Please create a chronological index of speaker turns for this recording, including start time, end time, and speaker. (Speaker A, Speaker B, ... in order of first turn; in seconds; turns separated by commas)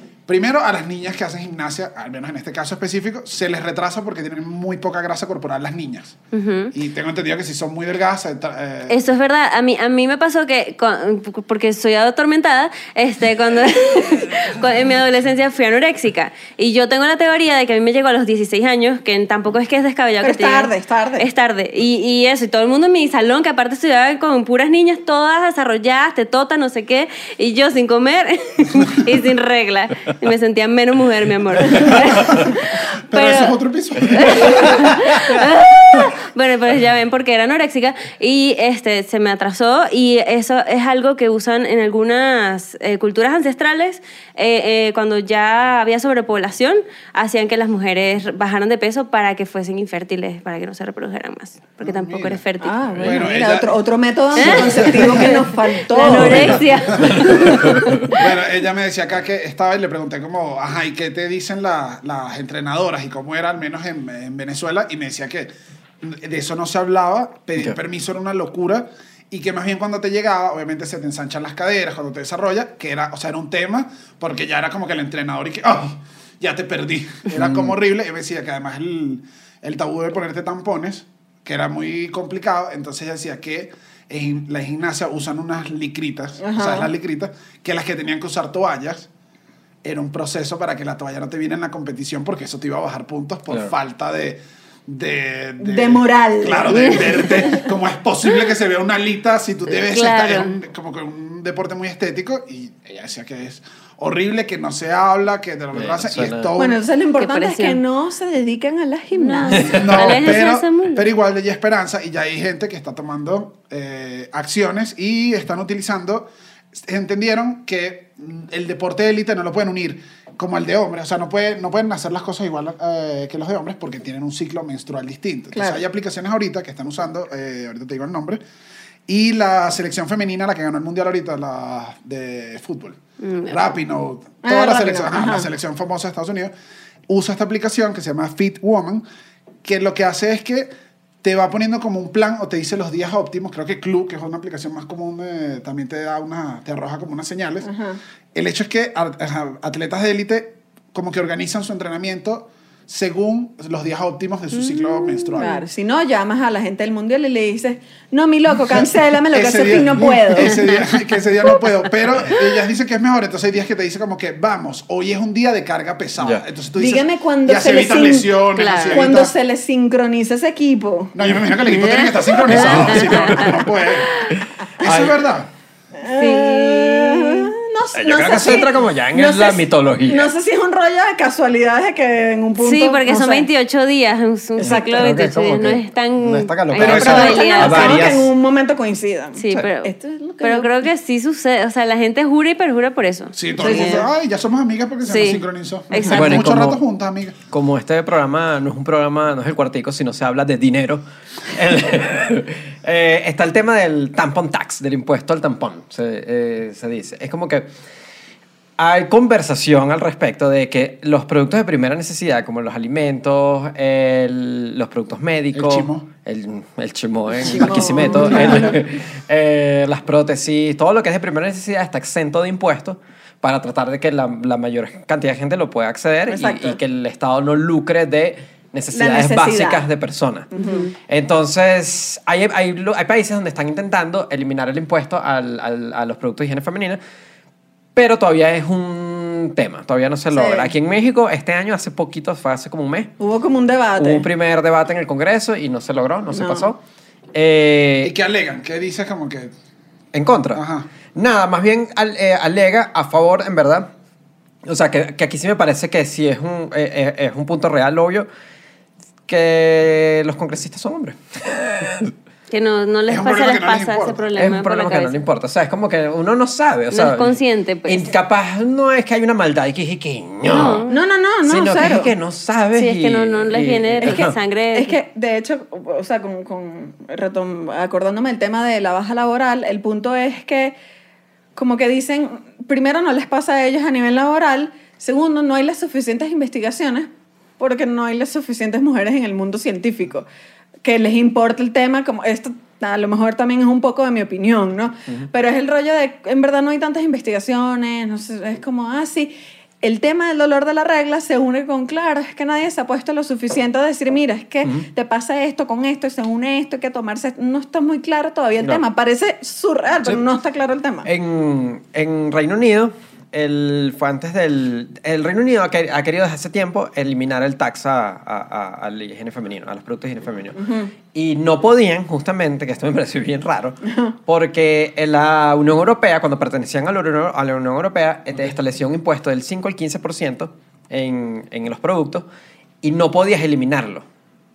Speaker A: 0.3-6.2, Speaker B: 6.3-6.7, Speaker A: 6.7-9.0, Speaker B: 8.9-53.2, Speaker C: 20.2-21.3, Speaker A: 31.7-32.5, Speaker A: 33.1-35.3, Speaker A: 51.8-52.4, Speaker C: 52.6-56.7, Speaker A: 53.0-53.8, Speaker A: 54.3-55.4, Speaker B: 54.4-58.2, Speaker A: 56.2-65.5, Speaker D: 56.3-58.1, Speaker A: 66.0-89.1, Speaker D: 77.3-77.7, Speaker C: 86.4-86.9, Speaker A: 89.8-106.8, Speaker C: 95.6-97.6, Speaker B: 99.7-100.6, Speaker D: 105.7-106.5, Speaker C: 106.6-110.0, Speaker B: 107.2-107.8, Speaker B: 109.1-111.1, Speaker D: 109.6-110.1, Speaker A: 109.6-128.4, Speaker C: 125.5-125.8, Speaker A: 129.1-136.5, Speaker B: 133.2-133.7, Speaker C: 134.4-135.5, Speaker A: 137.1-139.0, Speaker A: 139.6-140.7, Speaker A: 141.2-147.7, Speaker C: 147.6-148.0, Speaker A: 148.3-155.6, Speaker B: 154.5-155.6, Speaker C: 155.4-160.7, Speaker A: 158.7-169.3, Speaker D: 166.2-166.4, Speaker C: 166.8-168.4, Speaker B: 168.5-169.1, Speaker C: 168.9-171.1, Speaker A: 171.1-175.5, Speaker B: 171.6-173.7, Speaker D: 172.5-173.5, Speaker D: 174.3-175.2, Speaker C: 176.0-183.5, Speaker B: 176.1-177.5, Speaker D: 177.9-180.3, Speaker B: 182.6-188.1, Speaker D: 184.6-188.3, Speaker C: 184.6-185.0, Speaker A: 186.8-187.4, Speaker C: 186.8-190.8, Speaker B: 189.4-194.1, Speaker A: 193.3-197.4, Speaker C: 193.6-194.1, Speaker B: 195.0-196.4, Speaker D: 196.1-196.8, Speaker D: 197.5-207.7, Speaker D: 208.8-237.0, Speaker A: 215.5-216.1, Speaker C: 217.4-218.8, Speaker A: 217.6-218.6, Speaker C: 226.3-226.8, Speaker C: 228.9-229.8, Speaker C: 230.5-230.9, Speaker D: 237.9-243.1, Speaker C: 240.3-240.7, Speaker C: 243.2-244.3, Speaker D: 244.0-246.8, Speaker C: 246.3-246.7, Speaker D: 247.3-248.1, Speaker A: 248.0-249.5, Speaker D: 250.1-250.6, Speaker A: 250.5-250.9, Speaker D: 251.1-253.9, Speaker D: 254.6-258.3, Speaker D: 259.3-262.1, Speaker B: 262.5-265.1, Speaker A: 263.1-264.2, Speaker D: 264.3-270.9, Speaker B: 266.9-268.1, Speaker B: 270.5-271.0, Speaker C: 270.9-272.1, Speaker D: 271.4-274.4, Speaker B: 272.7-275.0, Speaker C: 274.0-280.8, Speaker C: 281.6-290.3, Speaker C: 290.8-311.1, Speaker D: 311.0-320.6, Speaker C: 320.6-320.9, Speaker D: 321.1-332.2, Speaker C: 323.9-324.1, Speaker D: 332.8-334.1